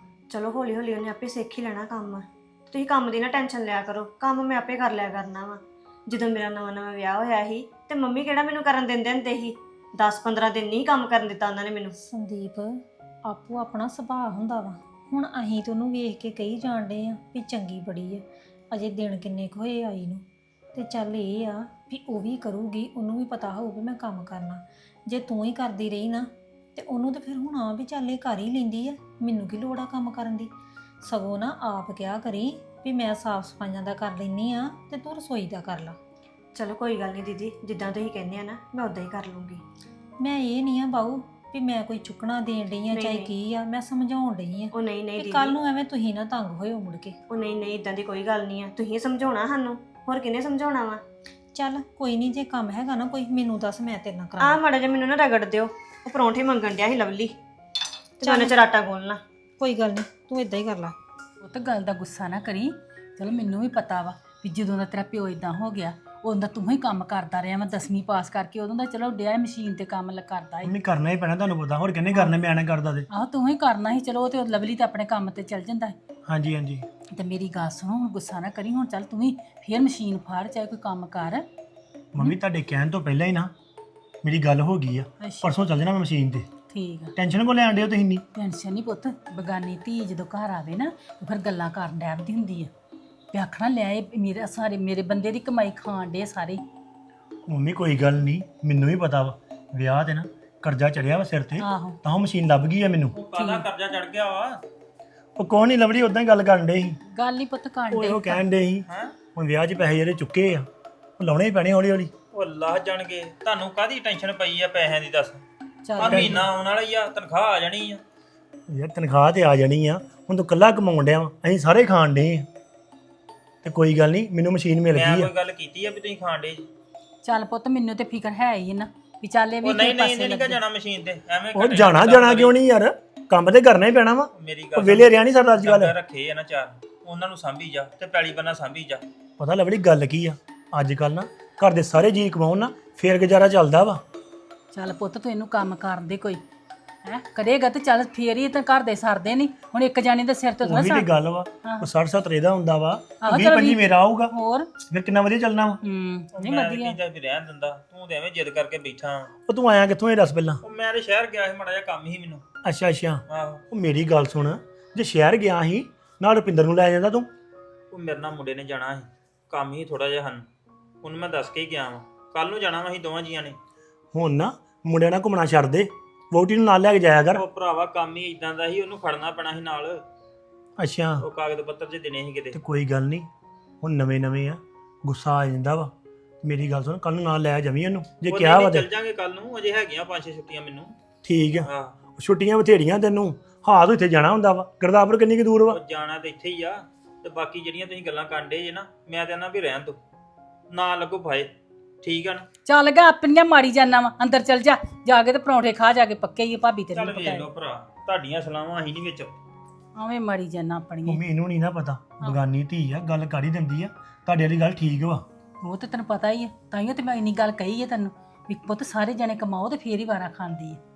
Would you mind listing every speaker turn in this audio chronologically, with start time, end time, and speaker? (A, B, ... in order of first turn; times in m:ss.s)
0:00.3-0:11.9 A
0:12.0-0:30.5 B
0:31.0-0:36.0 B
0:36.5-0:39.6 A
0:40.2-0:47.2 B
0:42.9-0:43.3 A
0:44.7-0:45.6 A
0:47.3-0:51.0 A
0:51.5-0:54.6 B
0:54.4-0:57.4 A
0:58.2-0:59.2 A
0:58.2-0:58.5 B
0:59.6-1:01.0 B
1:01.4-1:10.7 C
1:10.6-1:13.1 D
1:13.1-1:16.0 C
1:16.2-1:16.8 D
1:17.1-1:21.4 C
1:22.1-1:23.5 D
1:24.2-1:26.5 D
1:25.2-1:25.5 C
1:26.7-1:27.1 C
1:27.2-1:28.2 D
1:28.3-1:32.7 C
1:33.3-1:36.6 C
1:37.5-1:43.1 D
1:41.6-1:42.0 C
1:43.1-1:44.6 E
1:43.3-1:43.7 C
1:45.4-1:47.0 D
1:47.1-1:48.4 C
1:47.9-1:50.7 D
1:48.9-1:49.1 E
1:51.2-1:52.1 D
1:52.3-1:55.4 E
1:55.8-1:56.5 C
1:56.0-1:58.0 E
1:56.0-1:56.4 D
1:58.7-2:02.5 D
2:03.6-2:05.3 D
2:04.9-2:06.7 E
2:07.2-2:10.6 C
2:09.6-2:12.5 E
2:11.5-2:15.9 D
2:14.4-2:19.0 E
2:19.4-2:24.0 D
2:24.7-2:26.4 C
2:27.0-2:31.9 C
2:30.6-2:34.3 D
2:33.2-2:34.7 C
2:34.8-2:35.8 D
2:35.8-2:37.0 C
2:36.3-2:39.3 E
2:39.5-2:40.6 D
2:40.6-2:42.4 E
2:42.6-2:47.3 D
2:43.3-2:43.6 E
2:47.9-2:50.4 E
2:51.0-2:53.6 E
2:54.1-2:57.4 D
2:57.4-3:00.0 E
3:00.8-3:01.2 D
3:01.2-3:02.6 E
3:02.5-3:03.3 D
3:03.8-3:05.9 D
3:06.4-3:08.9 D
3:08.2-3:10.9 E
3:11.2-3:15.8 D
3:11.6-3:11.9 E
3:15.7-3:20.0 E
3:20.7-3:21.5 E
3:22.0-3:22.4 E
3:22.6-3:27.5 C
3:26.9-3:29.4 E
3:30.0-3:31.2 C
3:31.0-3:35.2 D
3:35.6-3:40.8 C